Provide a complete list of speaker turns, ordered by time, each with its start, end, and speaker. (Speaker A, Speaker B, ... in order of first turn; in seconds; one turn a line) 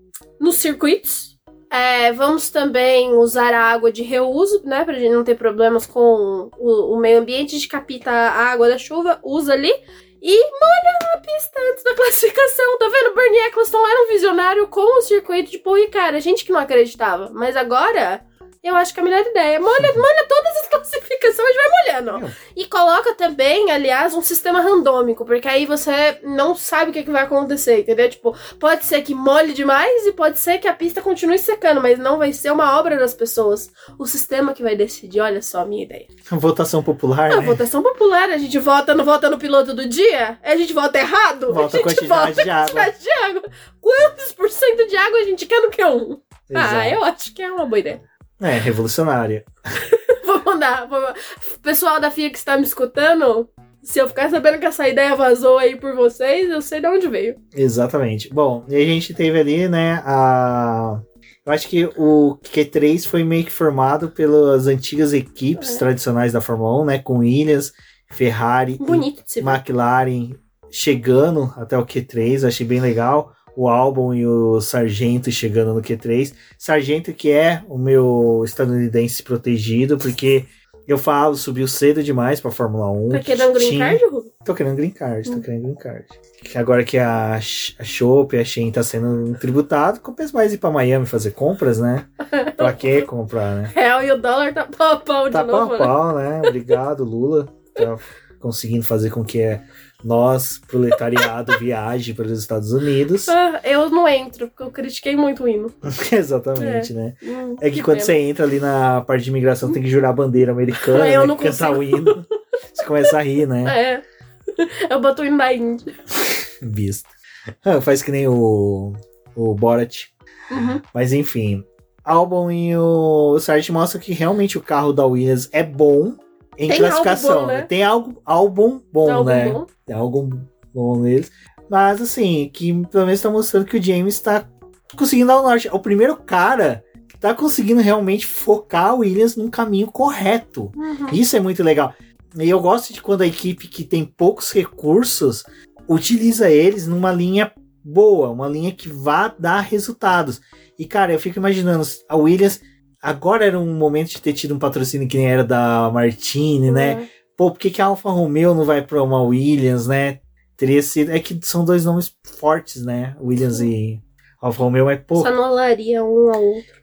Speaker A: 0.4-36.1
Speaker B: 19.8-20.0
Speaker B: 36.3-37.6
Speaker A: 37.3-48.0
Speaker B: 41.5-42.9
Speaker B: 46.5-47.0
Speaker B: 48.4-49.5
Speaker A: 49.8-57.4
Speaker B: 57.5-93.7
Speaker A: 65.6-65.8
Speaker A: 68.8-69.6
Speaker A: 83.1-84.3
Speaker A: 92.2-93.0
Speaker A: 93.7-96.5
Speaker B: 95.3-103.3
Speaker A: 103.3-105.7
Speaker B: 105.8-113.8
Speaker A: 106.6-108.2
Speaker A: 110.8-112.3
Speaker A: 113.6-114.0
Speaker A: 114.5-116.0
Speaker B: 116.2-117.1
Speaker B: 117.6-165.3
Speaker A: 120.5-120.8
Speaker A: 126.7-127.7
Speaker A: 129.0-129.7
Speaker A: 140.8-141.2
Speaker A: 156.7-157.1
Speaker A: 163.4-163.7
Speaker A: 165.2-166.7